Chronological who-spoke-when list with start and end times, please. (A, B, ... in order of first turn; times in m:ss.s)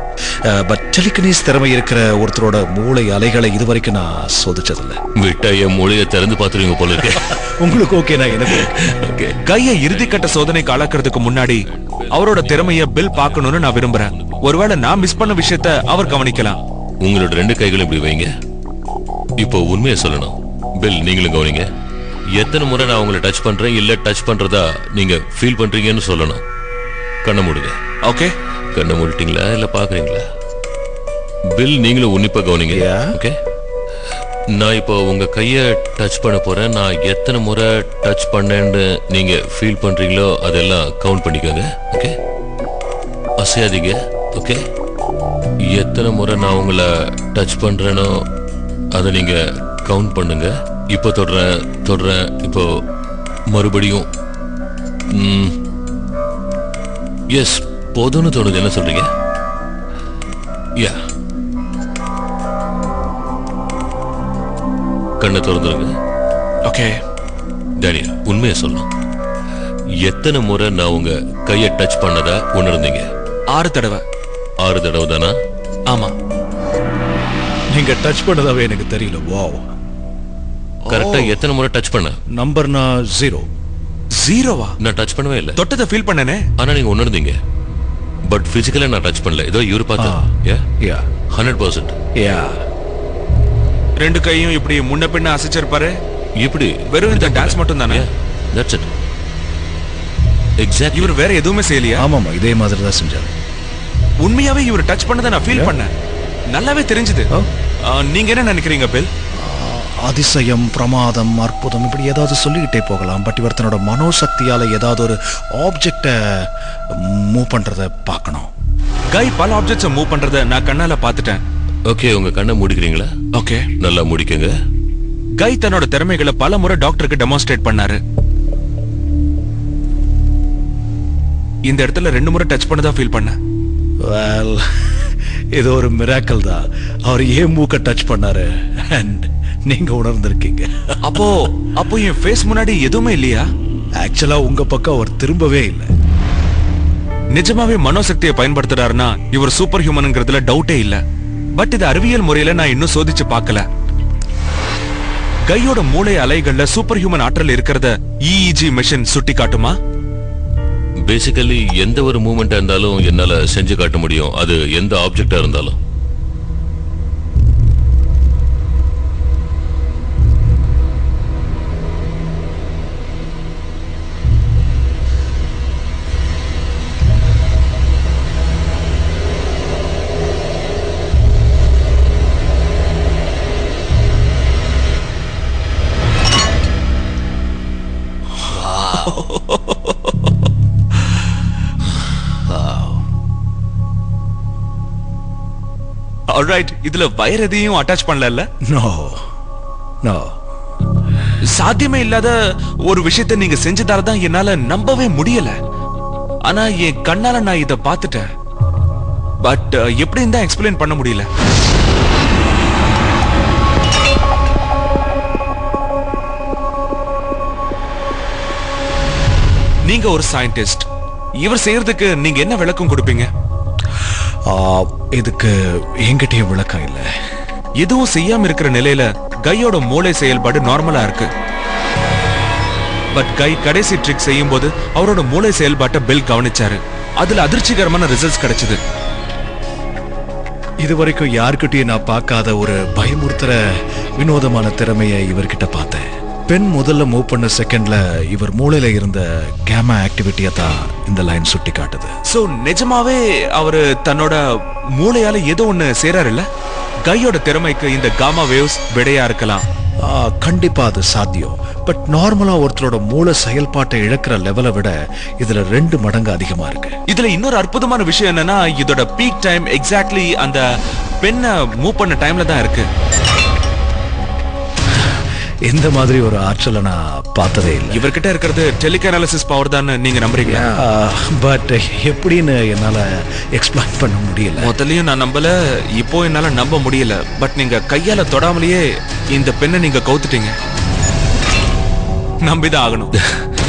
0:00.5-0:05.0 A
0:05.2-0:07.4 B
0:07.1-0:08.7 A
0:08.5-0:10.9 B
0:09.4-0:16.6 C
0:11.6-0:18.3 B
0:19.4-0:21.7 B
0:22.4-0:26.4 B
0:27.2-0:27.7 B
0:28.0-0:28.3 C
0:28.7-0:30.2 B
0:31.5-0:33.3 B
0:32.7-0:33.2 A
0:34.6-0:42.1 B
0:43.4-0:44.6 B
0:45.7-0:48.1 B
0:49.0-0:52.6 B
0:53.5-0:54.0 B
0:55.1-0:55.5 B
0:57.3-0:59.0 B
1:05.2-1:05.9 B
1:06.6-1:06.9 C
1:07.8-1:08.9 B
1:10.0-1:13.0 B
1:13.5-1:14.0 C
1:14.6-1:15.3 B
1:17.7-1:19.6 A
1:20.9-1:22.2 B
1:20.9-1:21.3 C
1:22.4-1:23.4 A
1:24.2-1:24.8 C
1:24.8-1:25.6 B
1:25.6-1:26.4 C
1:26.6-1:27.4 B
1:28.3-1:30.6 B
1:30.0-1:30.3 A
1:30.8-1:31.1 A
1:31.3-1:32.0 B
1:32.2-1:32.6 A
1:34.0-1:36.0 C
1:36.4-1:38.9 B
1:36.9-1:38.1 C
1:40.6-1:41.1 B
1:40.9-1:42.0 C
1:42.0-1:43.3 A
1:44.2-1:45.9 C
1:46.5-1:47.3 C
1:47.8-1:49.1 C
1:49.4-1:56.5 A
1:57.0-1:58.5 A
1:59.1-2:01.4 C
2:01.9-2:03.1 B
2:03.3-2:03.7 C
2:03.8-2:04.5 B
2:05.4-2:08.0 C
2:11.7-2:13.3 C
2:14.0-2:14.9 A
2:15.6-2:21.2 A
2:21.0-2:23.5 C
2:24.0-2:25.9 A
2:27.3-2:31.0 C
2:31.6-2:33.6 C
2:35.5-2:39.8 C
2:41.1-2:45.8 B
3:08.5-3:09.2 B
3:09.0-3:10.3 C
3:16.3-3:18.4 C
3:18.7-3:19.2 A
3:20.0-3:20.3 A
3:21.5-3:25.6 C
3:26.4-3:28.3 C
3:29.4-3:31.3 C
3:39.9-3:40.9 C
3:41.4-3:43.3 C
3:44.5-3:47.0 A
3:47.8-3:51.3 C
3:53.1-3:58.8 C
4:00.8-4:03.6 A
4:04.2-4:12.1 A
4:12.3-4:14.4 C
4:15.0-4:16.4 C
4:17.0-4:19.6 C
4:20.0-4:26.9 A
4:27.1-4:30.6 C
4:31.2-4:32.9 C
4:35.7-4:38.0 A
4:37.9-4:40.7 C
4:40.5-4:43.0 A
4:43.6-4:44.7 A
4:44.6-4:50.5 C
4:52.4-4:53.1 C